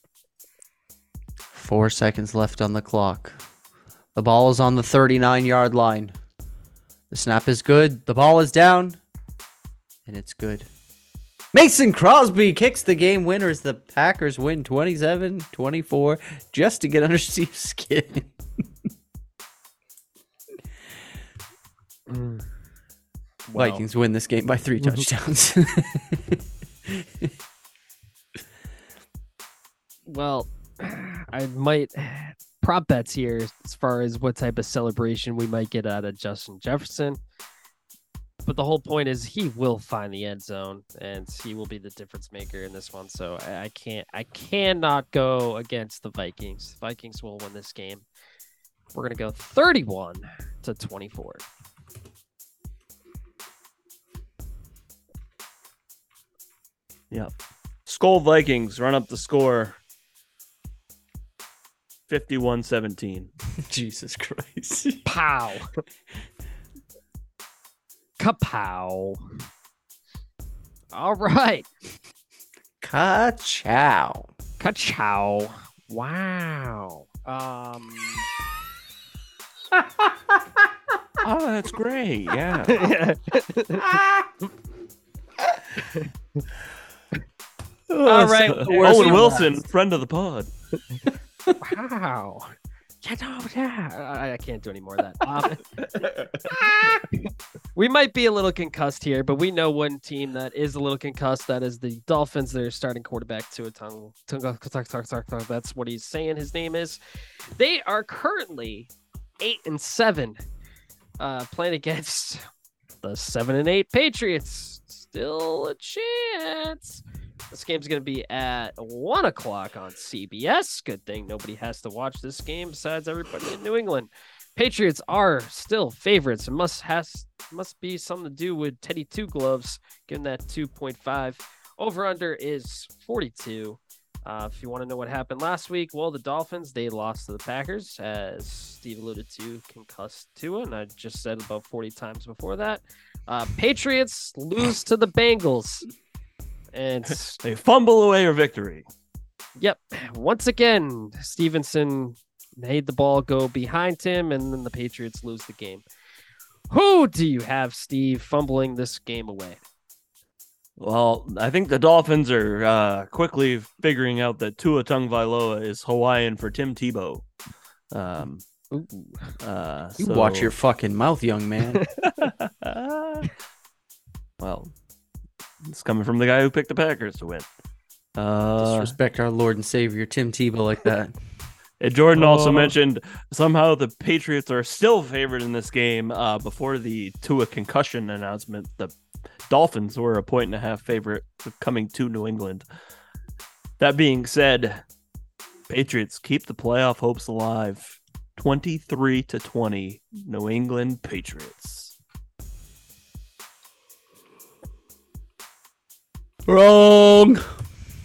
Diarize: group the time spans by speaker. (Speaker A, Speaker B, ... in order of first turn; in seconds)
Speaker A: 1.5-3.4, 4.1-6.1, 7.1-9.0, 10.1-10.7, 11.5-18.3, 23.5-27.3, 63.6-65.0, 72.8-74.3, 79.8-80.4, 83.8-84.3, 87.9-89.6, 96.1-97.0, 170.0-171.8, 178.6-181.1, 182.2-182.7, 206.4-207.4
Speaker B: 22.1-22.4, 23.4-23.8, 30.1-37.2, 38.5-48.0, 48.9-51.4, 65.0-65.8, 68.2-69.2, 70.9-71.7, 74.6-78.2, 82.7-84.0, 85.8-86.1, 88.0-89.4, 91.6-95.6, 96.5-96.8, 97.7-107.0, 107.5-110.4, 111.2-112.4, 113.0-145.9, 146.7-147.4, 149.6-155.8, 156.7-159.6, 168.7-169.3, 171.8-172.3
Speaker C: 57.9-59.8, 62.1-63.3, 81.2-82.9, 88.5-90.5, 147.4-148.8, 160.8-167.3, 167.9-168.4, 169.4-170.5, 172.2-173.3, 174.4-174.7, 175.6-177.5, 178.2-178.9, 181.8-188.9, 189.5-192.7, 193.8-194.8, 195.7-201.9